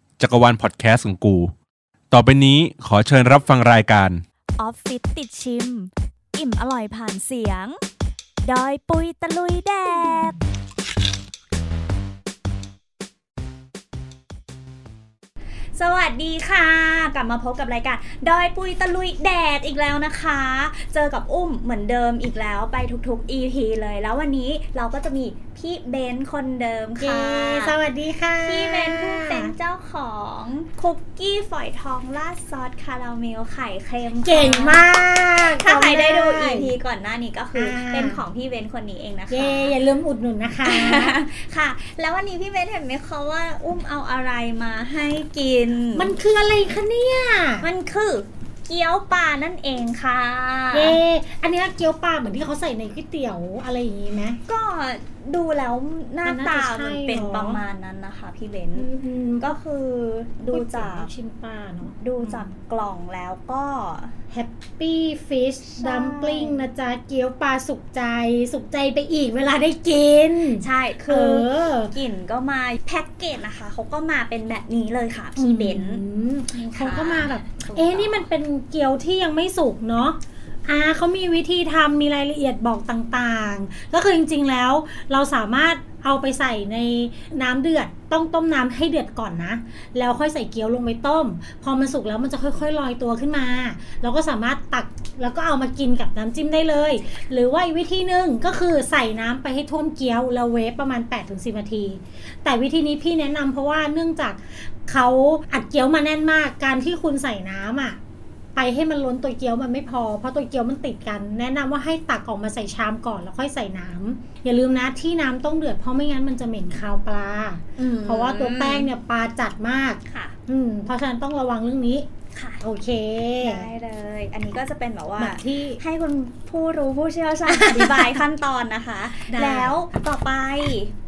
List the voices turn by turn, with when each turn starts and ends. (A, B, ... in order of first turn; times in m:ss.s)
0:00.2-0:01.5 A
0:02.1-0:04.2 A
0:04.6-0:07.8 B
0:08.4-0:10.4 B
0:15.7-0:27.8 B
0:27.0-0:29.5 C
0:28.4-0:39.8 B
0:34.2-0:36.8 C
0:37.5-0:38.2 C
0:39.3-0:41.2 C
0:40.6-0:46.1 B
0:45.9-0:47.7 C
0:47.6-0:51.0 B
0:50.7-0:54.4 C
0:54.5-0:58.9 B
0:56.2-0:57.6 C
0:58.7-0:59.5 C
0:59.4-1:01.1 B
1:00.5-1:02.5 C
1:02.0-1:04.1 B
1:04.3-1:11.9 C
1:05.7-1:06.7 B
1:10.6-1:18.3 B
1:15.4-1:48.0 C
1:48.5-2:02.1 C
1:57.8-1:58.9 B
2:00.0-2:00.3 B
2:02.3-2:02.6 B
2:02.6-2:03.7 C
2:03.4-2:10.9 B
2:05.2-2:05.8 C
2:07.4-2:08.2 C
2:09.2-2:09.8 C